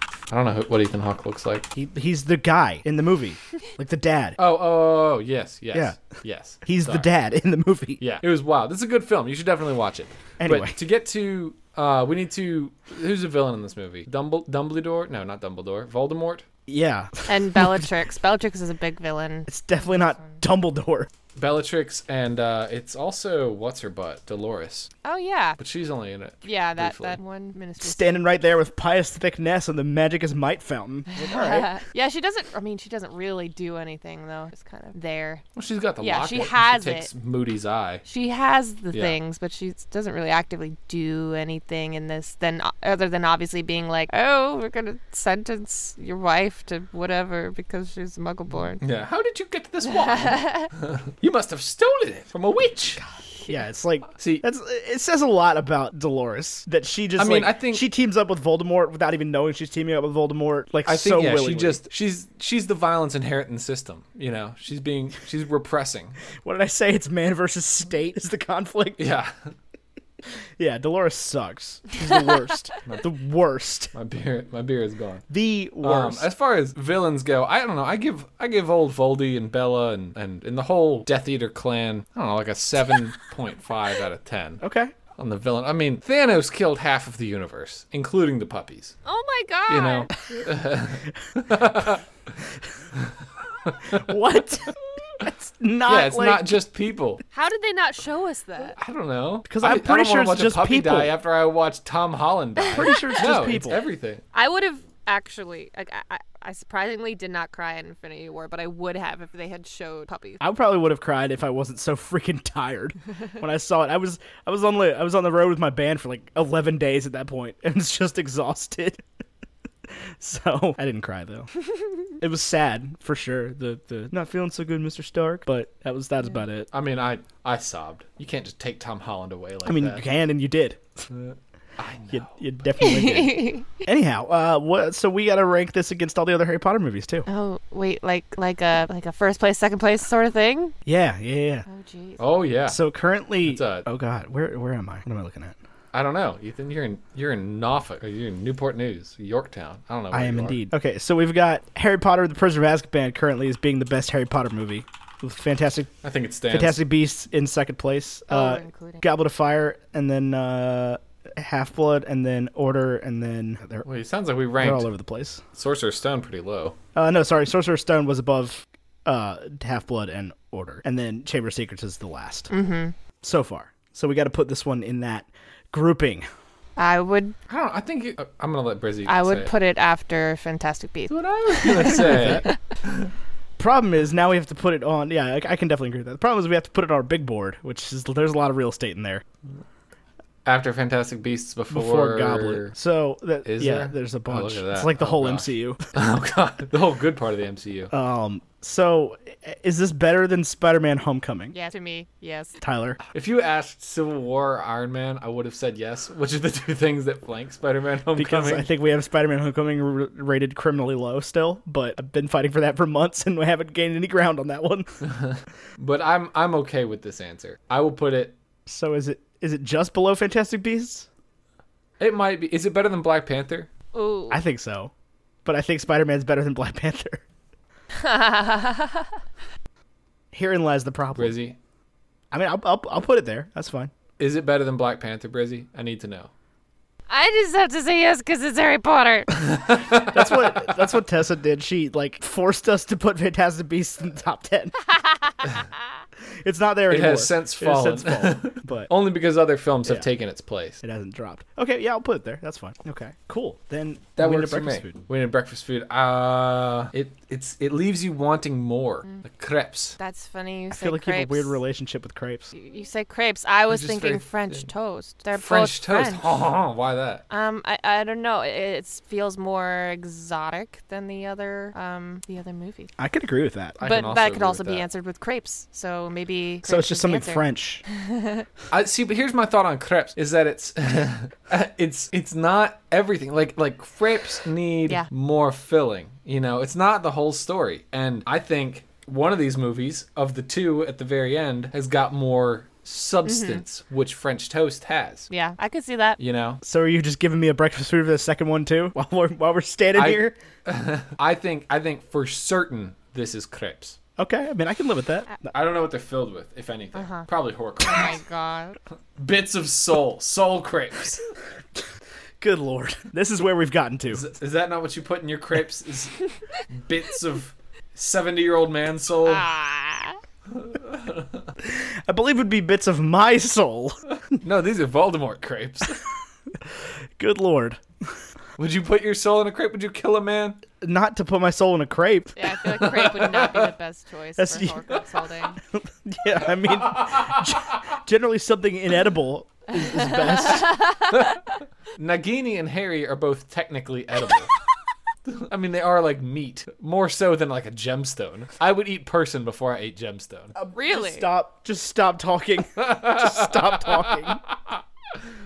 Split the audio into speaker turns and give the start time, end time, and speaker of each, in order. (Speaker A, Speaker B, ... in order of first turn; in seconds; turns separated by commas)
Speaker A: 0.3-1.7, Speaker B: 1.7-4.4, Speaker A: 4.4-7.1, Speaker B: 5.7-6.0, Speaker B: 6.6-8.0, Speaker A: 8.0-16.4, Speaker B: 10.4-10.7, Speaker B: 16.7-17.7, Speaker C: 17.3-20.4, Speaker B: 19.5-21.1, Speaker A: 21.4-24.9, Speaker C: 25.0-25.6, Speaker A: 25.6-27.2, Speaker C: 26.4-28.1, Speaker B: 27.8-31.7, Speaker C: 31.1-35.4, Speaker A: 35.5-38.0, Speaker C: 36.0-37.1, Speaker C: 38.0-48.8, Speaker A: 48.8-53.0, Speaker C: 49.8-50.7, Speaker B: 53.5-61.8, Speaker A: 54.2-54.4, Speaker A: 57.2-57.8, Speaker A: 60.8-66.2, Speaker B: 66.4-69.1, Speaker A: 69.0-69.3, Speaker B: 70.6-73.9, Speaker A: 72.9-73.1, Speaker A: 73.9-75.2, Speaker B: 75.3-76.3, Speaker A: 75.8-84.6, Speaker B: 84.6-84.9, Speaker A: 85.2-89.0, Speaker C: 89.0-90.1, Speaker A: 89.7-92.0, Speaker A: 93.0-94.1, Speaker B: 93.9-96.5, Speaker A: 95.9-97.2, Speaker C: 97.3-98.8, Speaker A: 98.8-104.2, Speaker B: 99.5-101.1, Speaker B: 102.7-103.8, Speaker C: 104.3-110.4, Speaker B: 110.4-119.0, Speaker B: 120.2-121.5, Speaker B: 122.2-126.7, Speaker A: 126.7-130.1, Speaker B: 129.7-131.1, Speaker A: 131.1-132.4, Speaker B: 132.1-137.3, Speaker C: 132.8-133.8, Speaker C: 137.3-140.7, Speaker B: 140.9-141.6, Speaker C: 141.7-142.2, Speaker A: 142.2-142.8, Speaker B: 142.7-145.6, Speaker A: 143.4-143.9, Speaker A: 145.9-150.6, Speaker B: 150.1-155.9, Speaker A: 156.0-156.8, Speaker B: 156.5-163.9, Speaker C: 158.3-159.0, Speaker A: 163.8-164.9, Speaker B: 164.6-165.4, Speaker A: 165.6-166.8, Speaker B: 166.9-172.5, Speaker C: 172.5-172.9, Speaker B: 173.2-176.3, Speaker C: 176.8-177.3, Speaker A: 177.5-179.5, Speaker C: 179.1-182.5, Speaker A: 181.1-183.1, Speaker B: 181.8-182.4, Speaker B: 183.6-189.2, Speaker A: 190.4-192.7, Speaker B: 191.7-195.8, Speaker A: 193.4-197.9, Speaker B: 197.9-201.6, Speaker C: 201.5-202.6, Speaker B: 202.6-203.0, Speaker A: 203.1-208.7, Speaker B: 208.1-214.9, Speaker A: 215.0-218.4, Speaker B: 218.7-221.1, Speaker A: 222.0-223.7, Speaker C: 223.9-224.4, Speaker B: 224.3-224.9, Speaker B: 225.4-227.2, Speaker C: 227.9-229.2, Speaker B: 230.3-231.3, Speaker A: 231.1-231.6, Speaker B: 232.3-233.9, Speaker A: 234.2-236.3, Speaker C: 237.1-239.4, Speaker A: 239.3-240.7, Speaker B: 239.9-244.7, Speaker C: 244.9-245.7, Speaker B: 246.4-248.9, Speaker A: 246.9-250.8, Speaker B: 250.8-255.0, Speaker A: 254.2-259.9, Speaker C: 260.0-261.6, Speaker B: 260.7-262.5, Speaker C: 262.5-266.3, Speaker A: 263.7-264.7, Speaker A: 265.3-267.2, Speaker C: 267.3-272.9, Speaker B: 273.0-273.8, Speaker A: 273.8-274.9, Speaker C: 273.8-278.4, Speaker B: 276.6-277.8, Speaker A: 278.7-295.3, Speaker C: 293.2-293.6, Speaker C: 295.3-296.2, Speaker A: 296.2-296.6, Speaker B: 296.6-300.4, Speaker A: 299.9-304.0, Speaker B: 304.2-305.3, Speaker A: 305.5-308.2, Speaker C: 306.9-307.3, Speaker C: 307.8-308.8, Speaker A: 309.2-311.3, Speaker B: 312.4-314.2, Speaker A: 314.1-319.4, Speaker C: 319.2-320.2, Speaker A: 320.5-321.5, Speaker B: 321.6-324.0, Speaker A: 324.1-326.1, Speaker B: 327.2-328.1, Speaker A: 328.6-330.6, Speaker B: 330.8-332.4, Speaker C: 332.4-335.6, Speaker A: 332.7-333.7, Speaker B: 334.4-334.9, Speaker B: 335.7-340.8, Speaker A: 336.7-337.6, Speaker C: 339.8-341.4, Speaker A: 341.1-341.4, Speaker A: 341.9-344.5, Speaker A: 345.2-350.5, Speaker B: 350.6-354.4, Speaker C: 350.7-351.3, Speaker A: 352.8-354.8